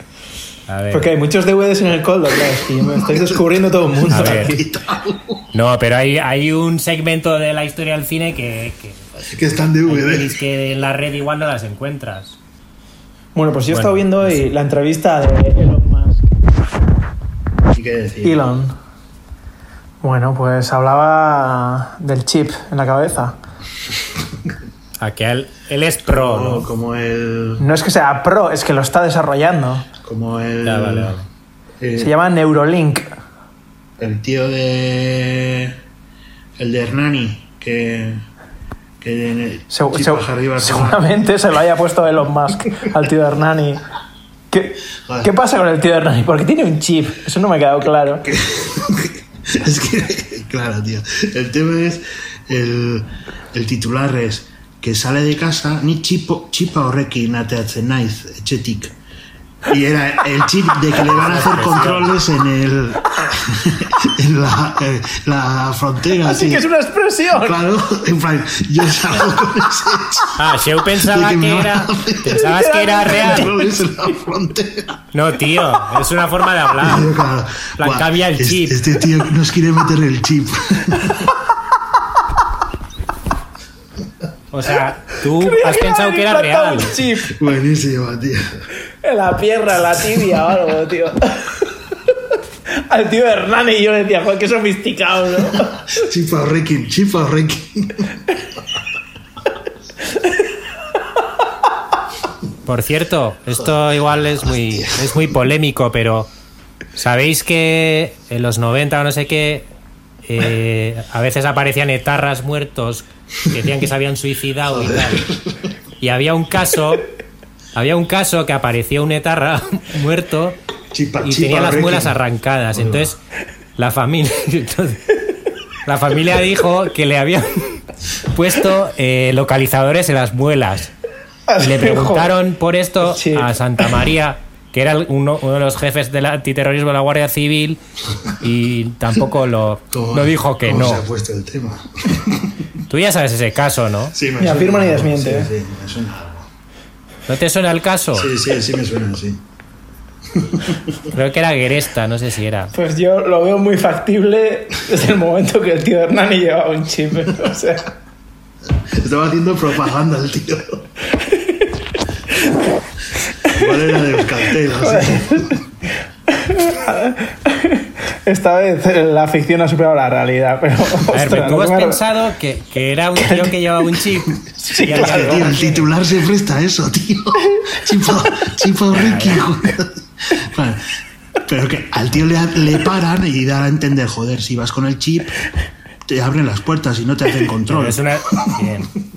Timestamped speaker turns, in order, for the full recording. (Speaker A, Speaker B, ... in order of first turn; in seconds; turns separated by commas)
Speaker A: 0.7-1.1, Speaker B: 0.9-4.6, Speaker C: 3.0-3.4, Speaker C: 4.0-5.5, Speaker A: 4.1-4.6, Speaker A: 5.5-12.4, Speaker C: 9.3-10.4, Speaker B: 13.3-16.3, Speaker A: 13.7-14.4, Speaker C: 17.7-18.4, Speaker B: 18.2-18.8, Speaker B: 20.0-23.4, Speaker A: 25.0-26.7, Speaker C: 26.1-27.6, Speaker B: 27.6-29.9, Speaker C: 30.0-31.1, Speaker A: 30.6-31.3, Speaker C: 31.8-32.1, Speaker B: 32.0-33.1, Speaker C: 34.0-35.8, Speaker C: 36.6-38.2, Speaker C: 39.0-41.0, Speaker B: 39.7-43.8, Speaker B: 44.5-48.3, Speaker C: 48.2-59.0, Speaker C: 59.7-66.7, Speaker A: 61.0-62.1, Speaker B: 66.2-67.6, Speaker C: 67.3-75.1, Speaker A: 70.3-73.5, Speaker B: 72.3-73.9, Speaker A: 75.1-77.1, Speaker C: 76.8-81.3, Speaker A: 77.8-78.8, Speaker A: 84.5-87.0, Speaker B: 85.4-87.4, Speaker C: 87.3-88.6, Speaker B: 89.0-91.8, Speaker B: 92.7-95.9, Speaker C: 95.9-98.2, Speaker A: 102.7-106.3, Speaker C: 104.1-105.3, Speaker A: 107.0-109.7, Speaker A: 110.2-115.3, Speaker C: 114.7-115.7, Speaker A: 116.0-117.1, Speaker A: 117.8-120.6, Speaker C: 120.9-122.2, Speaker A: 121.2-123.2, Speaker C: 122.7-123.1, Speaker A: 123.8-125.2, Speaker A: 125.8-130.9, Speaker B: 131.5-132.3, Speaker A: 131.6-137.8, Speaker B: 133.1-133.9, Speaker A: 138.3-141.0, Speaker C: 139.9-142.7, Speaker A: 142.9-144.2, Speaker C: 144.1-146.5, Speaker B: 144.4-145.5, Speaker A: 147.3-148.3, Speaker C: 148.2-149.4, Speaker C: 150.3-150.9, Speaker A: 151.1-152.7, Speaker B: 152.7-157.9, Speaker C: 158.8-160.8, Speaker C: 163.4-165.6, Speaker B: 164.6-165.6, Speaker B: 166.3-172.0, Speaker A: 171.1-175.9, Speaker B: 173.2-173.6, Speaker B: 174.6-175.8, Speaker C: 174.9-180.8, Speaker A: 178.9-179.5, Speaker C: 181.4-185.4, Speaker C: 186.1-188.6, Speaker A: 187.7-188.9